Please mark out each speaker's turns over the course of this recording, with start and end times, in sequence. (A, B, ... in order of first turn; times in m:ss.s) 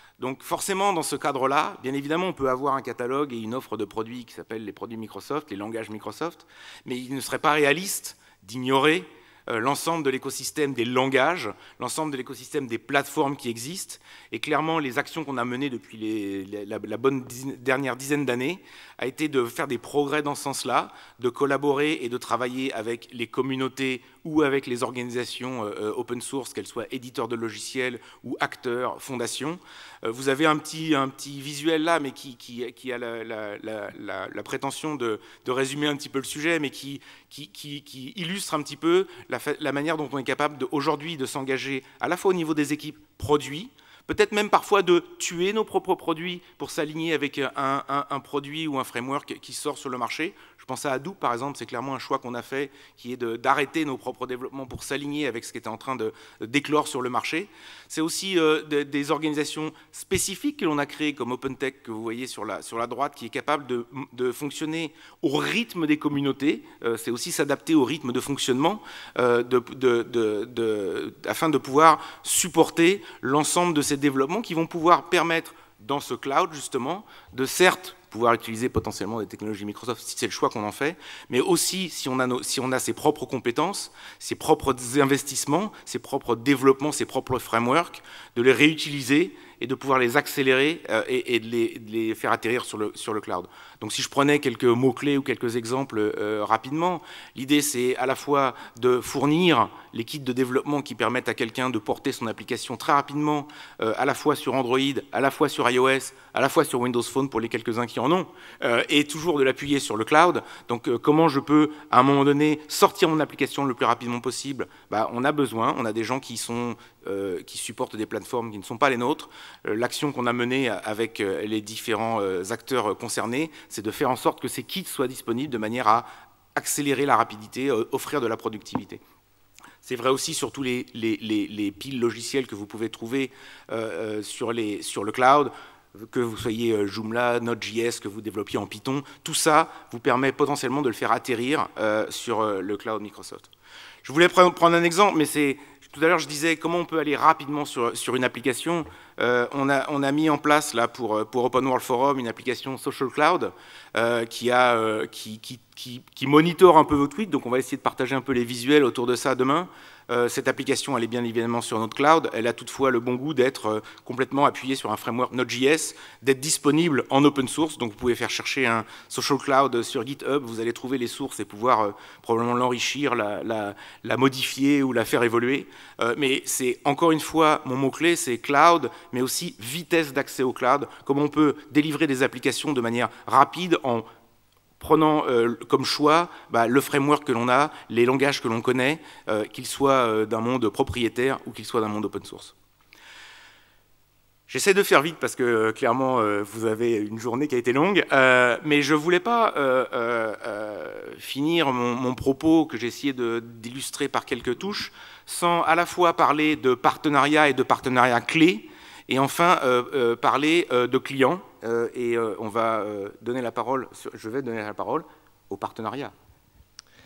0:00.2-2:09.0 A
2:09.8-2:23.5 A
2:24.0-3:04.0 A
3:04.8-3:12.5 A
3:14.5-3:36.1 A